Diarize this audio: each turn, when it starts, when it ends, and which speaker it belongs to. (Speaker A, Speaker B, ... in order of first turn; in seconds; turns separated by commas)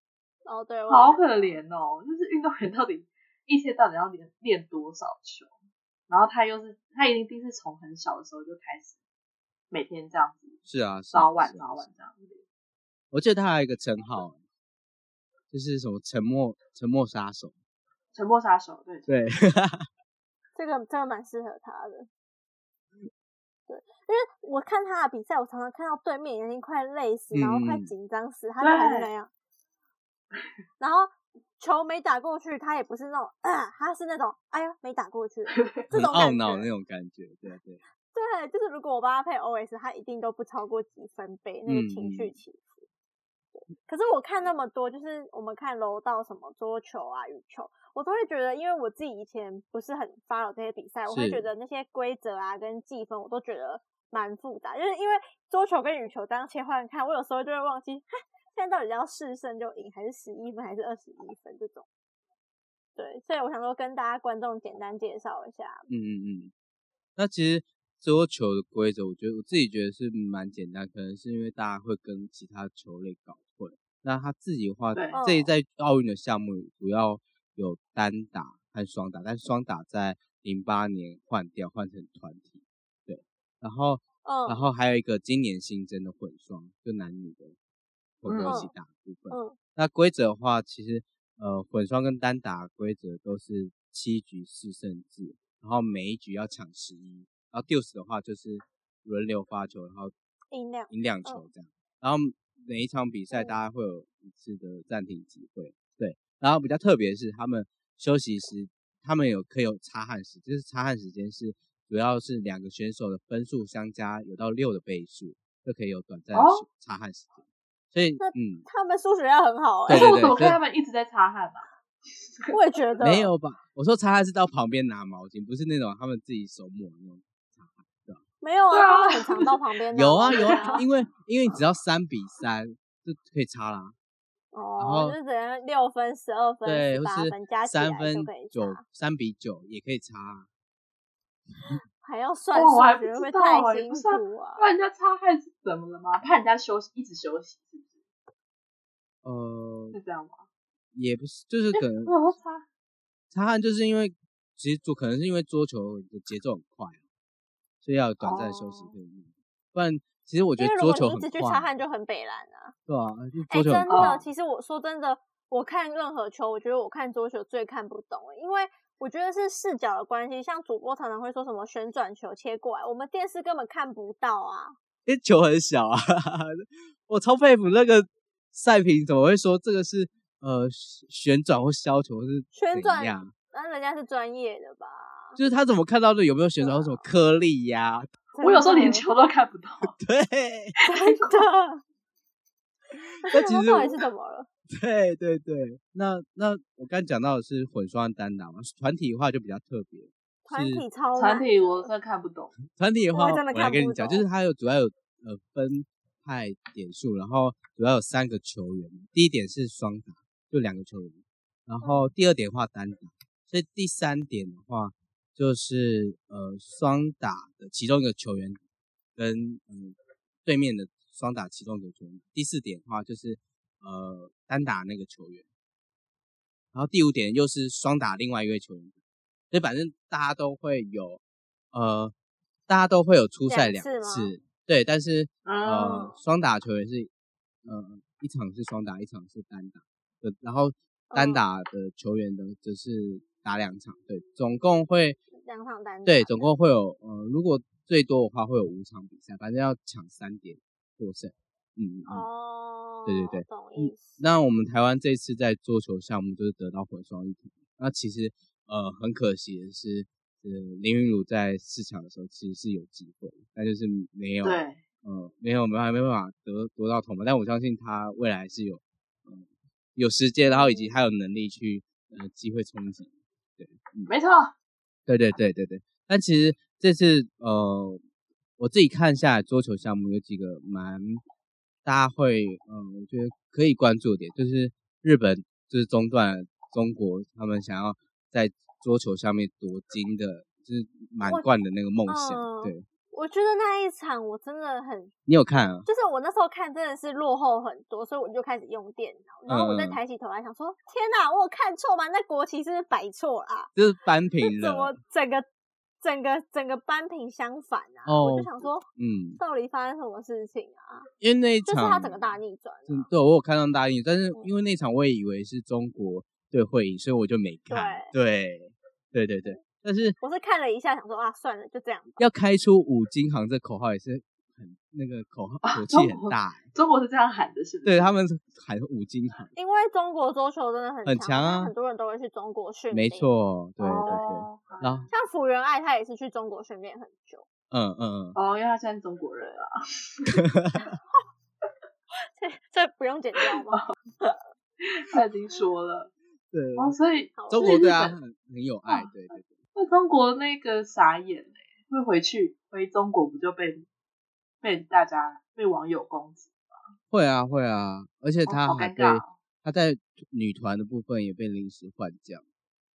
Speaker A: 0.5-1.5, Speaker B: 0.9-5.5, Speaker B: 6.1-9.0, Speaker B: 9.7-10.6, Speaker C: 10.7-11.8, Speaker B: 11.1-12.4, Speaker C: 13.1-14.4, Speaker C: 15.5-17.5, Speaker B: 18.1-19.1, Speaker C: 19.1-19.9, Speaker A: 20.5-22.1, Speaker A: 23.7-29.3, Speaker C: 27.3-27.9, Speaker B: 28.6-29.1, Speaker A: 30.8-36.7, Speaker B: 35.5-35.9, Speaker C: 35.9-37.8, Speaker A: 38.1-42.8, Speaker C: 41.6-42.4, Speaker A: 43.5-61.9, Speaker C: 51.1-51.5, Speaker A: 63.0-65.9, Speaker C: 65.9-66.5, Speaker C: 67.2-87.5, Speaker B: 74.9-75.2, Speaker A: 75.1-75.5, Speaker A: 84.2-84.6, Speaker C: 88.2-100.1, Speaker B: 88.2-88.6, Speaker A: 88.4-88.7, Speaker A: 89.3-89.5, Speaker A: 100.5-101.5, Speaker C: 100.9-118.6, Speaker A: 103.3-103.6, Speaker B: 116.3-116.7, Speaker A: 118.2-120.3, Speaker C: 119.9-120.6, Speaker B: 119.9-122.5, Speaker A: 122.5-123.3, Speaker C: 123.0-128.2, Speaker A: 128.4-130.8, Speaker B: 128.7-129.6, Speaker C: 129.9-133.9, Speaker B: 130.4-130.8, Speaker A: 134.5-138.8, Speaker C: 134.8-135.2, Speaker C: 136.6-140.5, Speaker A: 142.0-144.7, Speaker B: 142.5-148.0, Speaker C: 149.2-149.9, Speaker B: 149.9-150.5, Speaker C: 150.9-152.2, Speaker B: 151.7-152.6, Speaker C: 153.3-157.0, Speaker C: 157.8-161.6, Speaker B: 158.2-158.9, Speaker A: 160.6-162.7, Speaker C: 162.9-164.2, Speaker A: 163.5-174.8, Speaker B: 163.9-164.2, Speaker C: 175.1-183.3, Speaker A: 182.5-185.4, Speaker C: 185.4-188.1, Speaker A: 186.6-187.0, Speaker A: 188.4-189.1, Speaker B: 188.4-189.9, Speaker C: 189.8-190.7, Speaker B: 190.8-191.4, Speaker A: 190.8-191.8, Speaker C: 192.9-194.0, Speaker A: 193.2-194.5, Speaker C: 194.7-200.8, Speaker A: 200.4-201.9, Speaker B: 201.2-202.6, Speaker C: 202.7-218.6, Speaker A: 203.1-204.2, Speaker A: 211.8-212.1, Speaker C: 219.2-225.4, Speaker C: 226.7-228.9, Speaker C: 229.5-231.2, Speaker C: 231.7-232.1, Speaker C: 232.7-237.1, Speaker A: 233.4-234.3, Speaker B: 235.4-236.1, Speaker C: 237.6-245.2, Speaker A: 241.1-241.4, Speaker A: 245.3-246.5, Speaker C: 246.0-252.2, Speaker A: 252.1-254.2, Speaker C: 253.1-274.1, Speaker B: 264.4-264.8, Speaker A: 270.5-270.9, Speaker B: 274.1-274.5, Speaker C: 275.1-278.0, Speaker C: 278.6-281.2, Speaker C: 281.8-292.8, Speaker A: 291.2-291.5, Speaker A: 292.1-295.1, Speaker C: 295.2-295.9, Speaker A: 295.9-303.7, Speaker C: 299.5-300.0, Speaker C: 303.8-305.0, Speaker A: 304.4-305.4, Speaker A: 306.0-308.9, Speaker C: 308.1-309.4, Speaker A: 309.4-311.1, Speaker C: 311.2-312.3, Speaker A: 311.6-313.1, Speaker C: 312.9-320.2, Speaker A: 317.7-318.1, Speaker A: 320.2-322.3, Speaker C: 322.2-326.6, Speaker B: 325.6-328.2, Speaker C: 327.8-329.5, Speaker A: 329.5-333.3, Speaker C: 331.0-331.7, Speaker C: 332.9-335.1, Speaker B: 333.8-335.1, Speaker A: 335.1-337.4, Speaker C: 337.7-338.4, Speaker B: 338.3-340.4, Speaker C: 340.3-340.9, Speaker A: 342.2-343.8, Speaker B: 343.5-343.9, Speaker B: 344.8-346.1, Speaker C: 346.5-347.0, Speaker B: 346.8-348.1, Speaker A: 347.4-347.9, Speaker C: 347.5-349.5, Speaker B: 349.8-353.9, Speaker B: 354.6-356.9, Speaker C: 357.1-362.4, Speaker B: 358.5-359.3